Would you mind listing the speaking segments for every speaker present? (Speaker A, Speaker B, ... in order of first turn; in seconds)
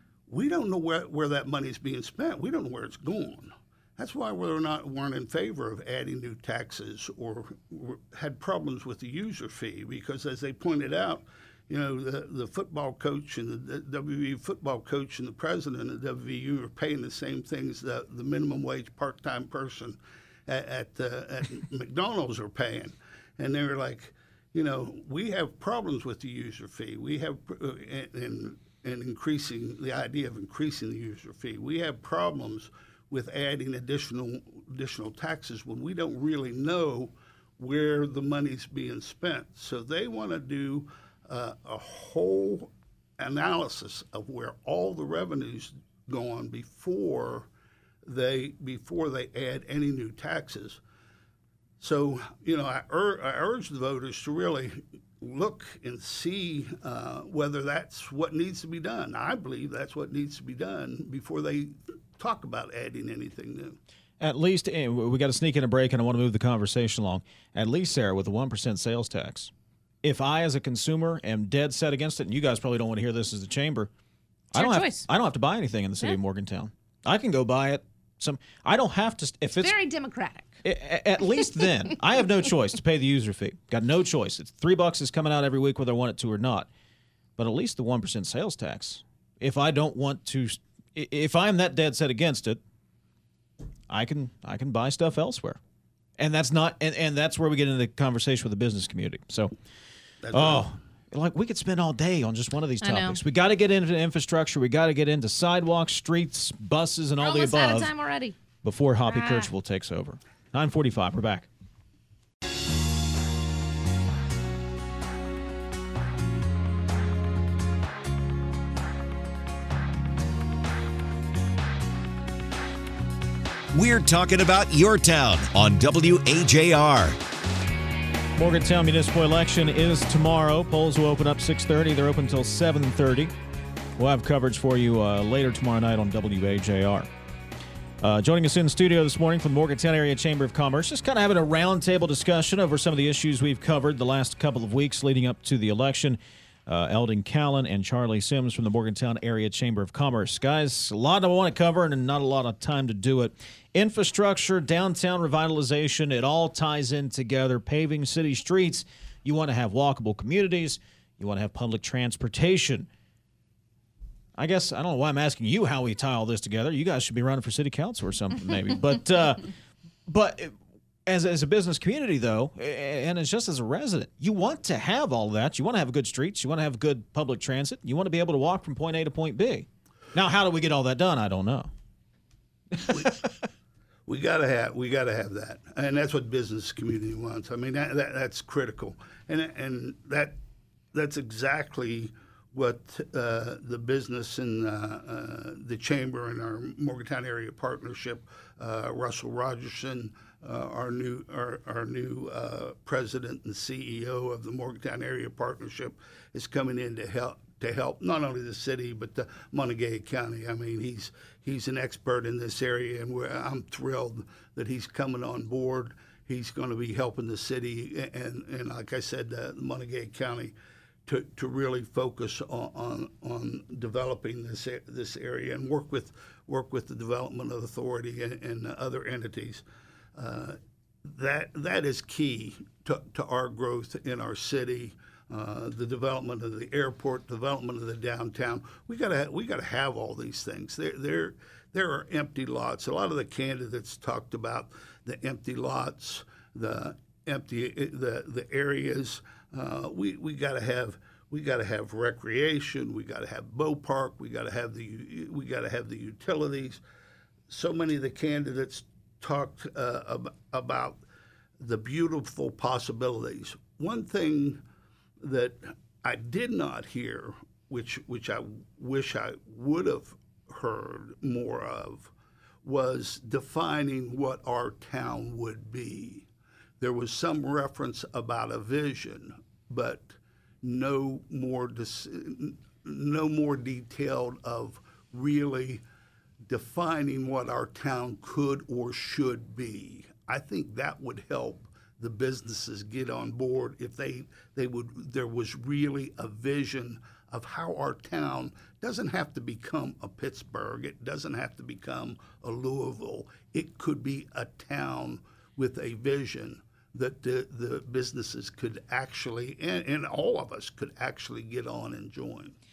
Speaker A: 0.3-47.5, 48.0-50.8, 51.8-63.8, 100.2-100.7, 182.9-183.1, 184.1-190.4, 190.9-220.5, 221.1-229.6, 230.2-256.8, 257.5-261.0, 261.6-264.6, 265.2-272.1, 272.6-276.3, 276.8-285.8, 286.5-312.6
Speaker B: 64.2-69.5, 70.0-73.9, 74.5-79.8, 80.6-86.7, 87.4-92.6, 93.9-95.6, 96.2-99.5, 100.3-107.9, 108.6-111.5, 128.4-133.3, 134.0-137.1, 138.0-162.9, 164.4-169.5, 170.1-170.6, 171.1-181.7, 182.7-183.3
Speaker C: 74.5-75.1, 79.6-80.6, 102.8-103.2, 107.2-108.4, 109.1-109.5
Speaker D: 123.7-127.2